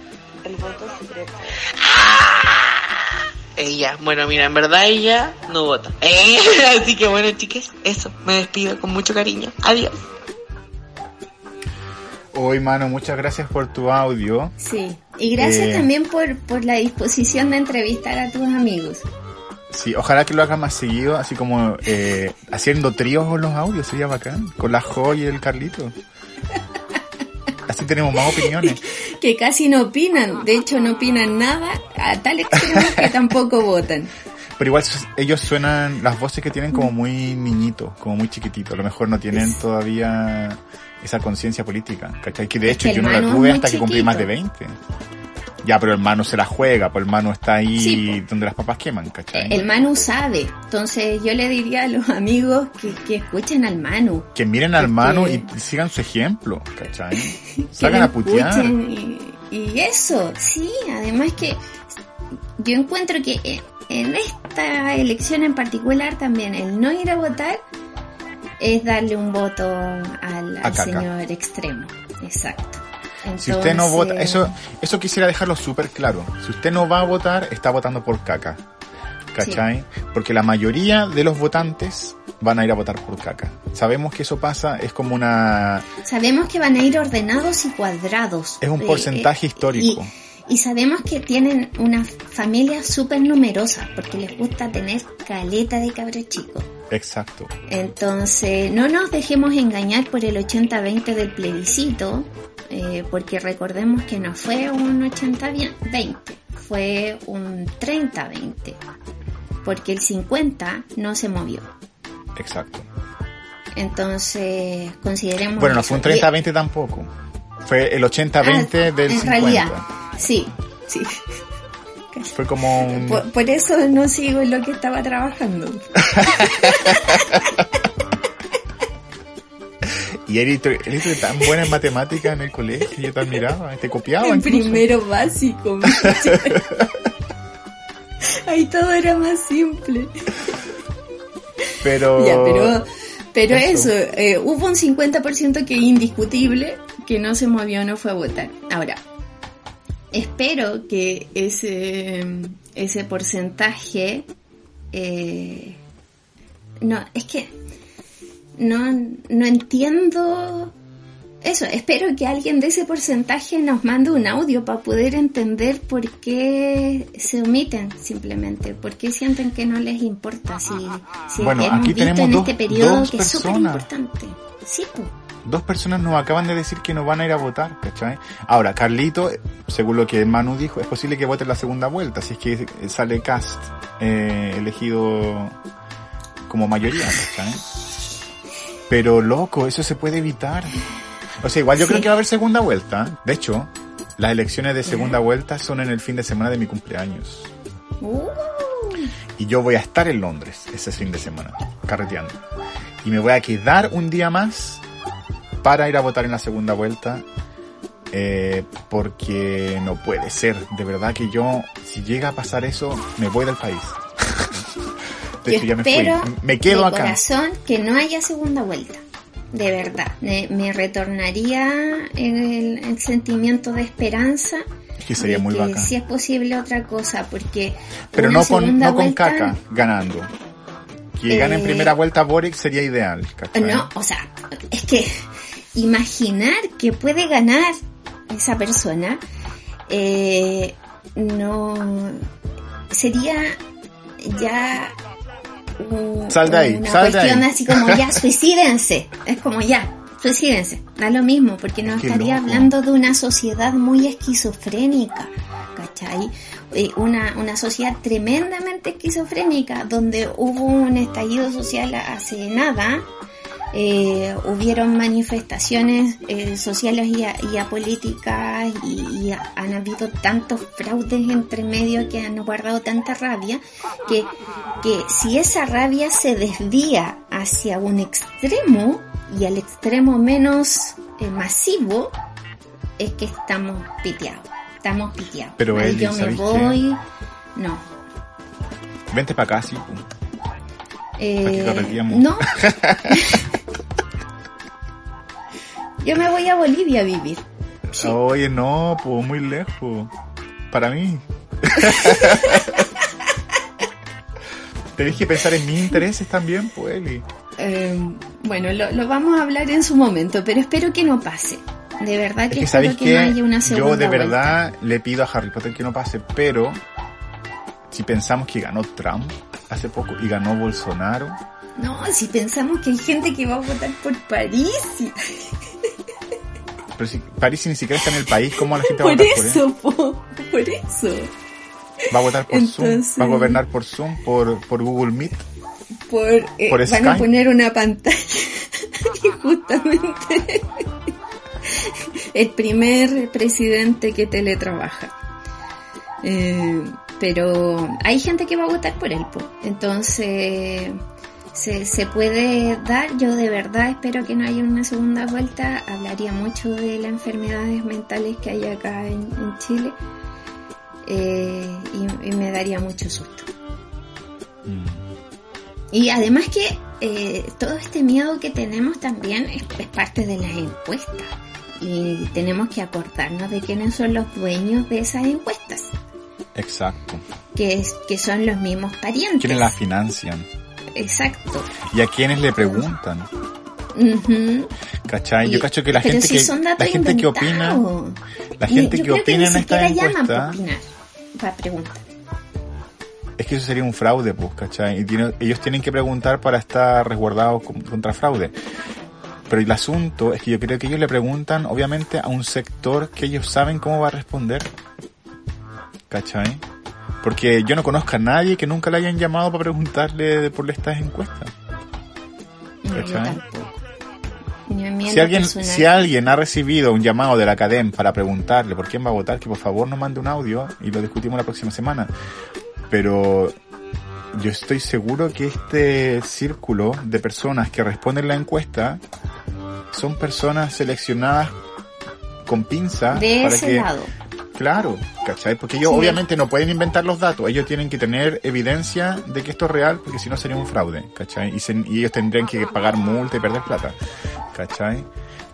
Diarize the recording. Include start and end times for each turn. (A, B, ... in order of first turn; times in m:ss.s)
0:00.4-0:09.9 A
0:12.3-0:14.5 B
0:14.6-0:19.0 C
0:15.4-0:15.9 B
0:19.7-0:25.9 B
0:27.7-0:28.8 B
0:28.3-0:34.1 C
0:32.6-0:33.1 B
0:34.6-0:44.8 B
0:39.3-0:39.6 C
0:42.6-0:44.3 C
0:45.6-0:49.6 B
0:47.8-0:48.2 C
0:49.3-0:55.5 C
0:54.3-0:58.7 B
0:57.5-1:01.6 C
1:02.6-1:07.6 C
1:08.6-1:14.6 C
1:10.6-1:11.0 B
1:13.4-1:18.6 B
1:19.3-1:25.8 B
1:19.4-1:19.6 C
1:26.0-1:36.7 C
1:28.6-1:30.1 B
1:36.9-1:37.5 B
1:37.7-1:48.8 C
1:49.6-1:51.7 C
1:52.3-1:52.9 B
1:53.8-1:56.3 C
1:55.6-1:57.1 B
1:57.6-1:59.8 B
1:58.4-2:01.2 C
2:02.1-2:07.6 C
2:02.3-2:03.3 B
2:06.2-2:07.2 B
2:09.8-2:14.9 B
2:14.2-2:16.8 C
2:18.4-2:20.3 C
2:21.8-2:22.8 B
2:22.1-2:29.0 C
2:23.5-2:23.9 B
2:30.1-2:34.3 C
2:34.9-2:35.8 C
2:36.8-2:37.5 C
2:38.6-2:40.7 C
2:41.4-2:55.1 C
2:51.4-2:53.9 B
2:55.4-3:05.6 B
3:06.5-3:07.6 B
3:08.9-3:10.8 B
3:11.4-3:17.5 B
3:11.8-3:12.1 C
3:14.8-3:15.2 C
3:18.0-3:19.1 C
3:19.4-3:22.4 B
3:23.0-3:24.8 B
3:25.6-3:27.2 B
3:28.1-3:34.8 B
3:35.4-3:37.2 B
3:35.5-3:44.6 C
3:45.0-3:45.9 B
3:45.2-3:49.6 C
3:48.1-3:50.3 B
3:51.2-3:53.9 B
3:51.3-3:52.0 C
3:53.5-3:57.8 C
3:58.3-3:59.2 C
3:59.9-4:02.2 C
4:02.9-4:03.6 C
4:04.2-4:05.0 C
4:05.8-4:23.0 C
4:06.3-4:08.2 B
4:11.8-4:12.7 B
4:23.7-4:34.3 C
4:34.8-4:42.2 C
4:43.0-4:47.0 C
4:45.6-4:46.8 B
4:47.6-4:47.8 C
4:49.1-4:50.0 B
4:51.2-4:53.4 C
4:51.4-4:53.4 B
4:56.0-4:58.2 C
4:57.9-5:00.1 B
5:00.7-5:02.8 B
5:01.7-5:02.9 C
5:05.0-5:07.2 B
5:07.6-5:14.5 C
5:12.5-5:16.8 B
5:17.9-5:21.4 B
5:21.8-5:25.5 C
5:27.0-5:29.6 B
5:28.5-5:31.3 C
5:32.1-5:35.5 B
5:32.5-5:33.6 C
5:36.1-5:40.8 C
5:36.7-5:37.3 B
5:41.6-5:45.1 C
5:46.2-5:51.0 C
5:51.5-6:00.0 C
6:01.0-6:03.5 C
6:04.6-6:05.1 B
6:05.9-6:15.9 C
6:16.5-6:17.2 B
6:17.5-6:19.7 C
6:19.4-6:20.5 B
6:20.9-6:21.7 C
6:21.8-6:23.3 B
6:22.6-6:22.9 C
6:23.9-6:24.7 C
6:25.1-6:27.8 B
6:25.4-6:32.0 C
6:28.6-6:30.6 B
6:33.4-6:38.5 B
6:39.5-6:44.7 B
6:46.1-6:46.6 B
6:47.2-6:51.5 B
6:52.8-6:53.8 C
6:52.9-6:53.4 B
6:54.7-6:56.1 C
6:55.0-7:02.1 B
7:02.9-7:03.6 B
7:04.3-7:09.0 B
7:09.9-7:11.6 B
7:12.4-7:13.9 B
7:13.1-7:14.1 C
7:14.5-7:24.0 B
7:15.8-7:16.2 C
7:24.5-7:25.1 B